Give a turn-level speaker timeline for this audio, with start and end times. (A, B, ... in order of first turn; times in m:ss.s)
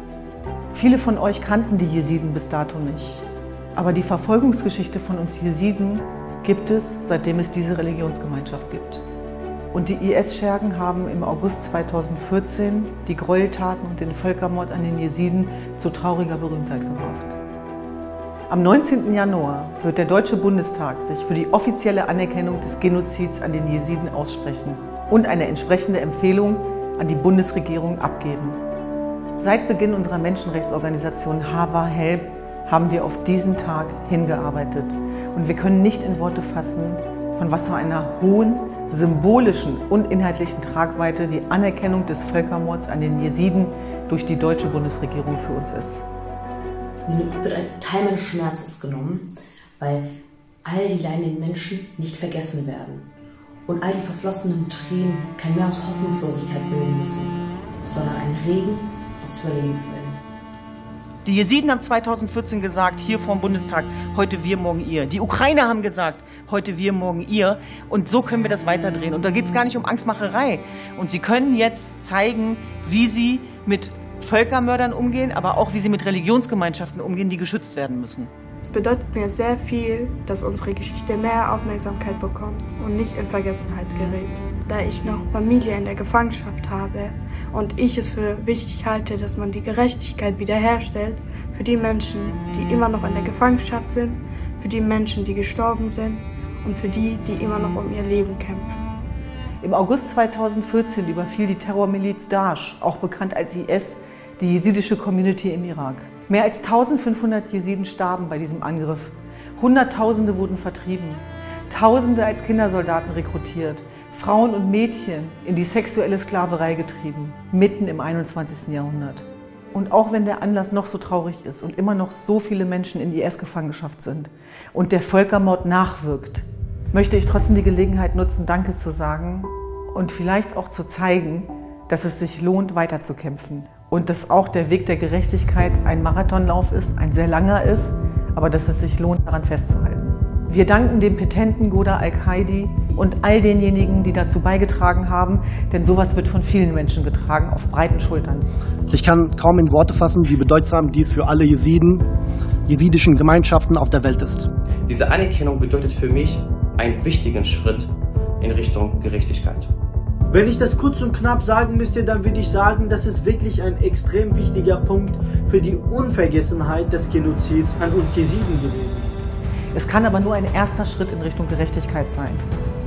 0:00.7-0:09.0 A
0:09.7-0:17.4 A
0:18.5-0:28.6 A
0:29.4-0:46.0 A
0:47.0-0:50.1 B
0:50.6-0:53.1 B
0:53.6-1:00.2 B
1:01.2-1:18.3 A
1:18.6-1:38.7 C
1:39.6-2:28.4 A
2:28.9-2:32.0 D
2:32.7-2:34.5 D
2:34.9-2:39.7 E
2:40.3-2:49.2 F
2:49.7-2:52.4 A